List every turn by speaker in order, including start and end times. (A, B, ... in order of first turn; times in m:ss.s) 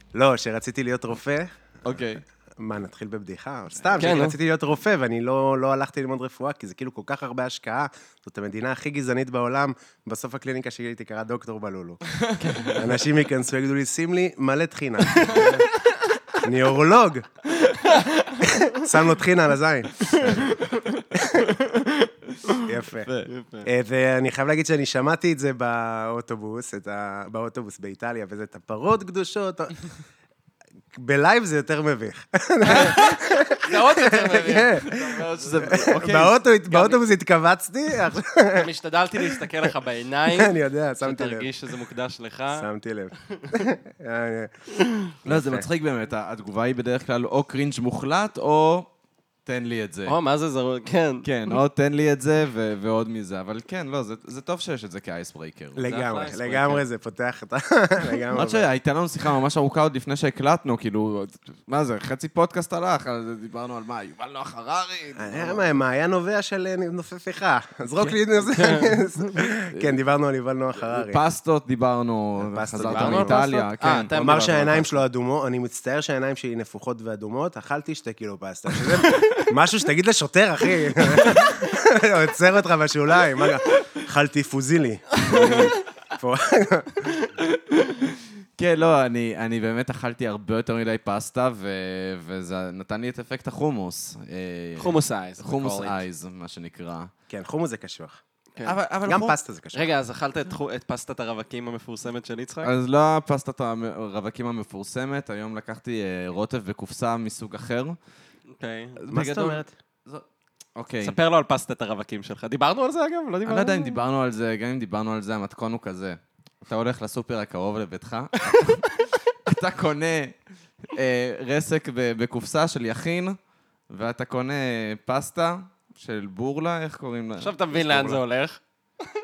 0:00.1-0:01.5 A
0:01.8-0:02.2 B
0:02.6-0:12.0 A
0:04.0-0:04.4 C
0:12.1-0:12.5 B
0:12.4-0:13.0 C
0:12.6-0:15.7 A
0:15.2-0:16.0 C
0:16.3-0:17.3 A
0:17.6-0:18.4 C
0:18.4-0:21.6 A
0:20.0-0:23.7 C
0:22.6-0:29.9 A
0:30.9-0:39.6 A
0:32.6-0:35.5 C
0:35.1-0:36.4 B
0:36.7-0:37.0 C
0:38.5-0:42.7 C
0:40.3-0:41.5 A
0:42.5-0:45.7 A
0:45.3-0:48.9 B
0:49.5-0:50.2 B
0:50.1-0:51.2 C
0:51.2-0:55.9 B
0:55.8-0:58.7 A
0:55.8-0:56.8 C
0:58.4-1:05.8 B
1:05.2-1:11.2 A
1:08.4-1:09.0 C
1:09.7-1:10.0 B
1:10.9-1:15.0 B
1:12.4-1:13.4 A
1:12.9-1:14.6 C
1:14.1-1:27.1 A
1:25.3-1:25.6 C
1:27.8-1:37.1 B
1:34.8-1:36.0 C
1:37.3-1:38.2 A
1:38.6-1:39.4 B
1:39.0-1:39.8 A
1:39.7-1:42.7 C
1:42.6-1:48.0 B
1:48.6-1:49.6 C
1:49.1-1:49.7 A
1:49.1-1:49.5 B
1:50.8-1:51.2 B
1:51.0-1:54.0 C
1:53.4-2:03.4 B
2:03.9-2:08.2 B
2:07.4-2:08.6 C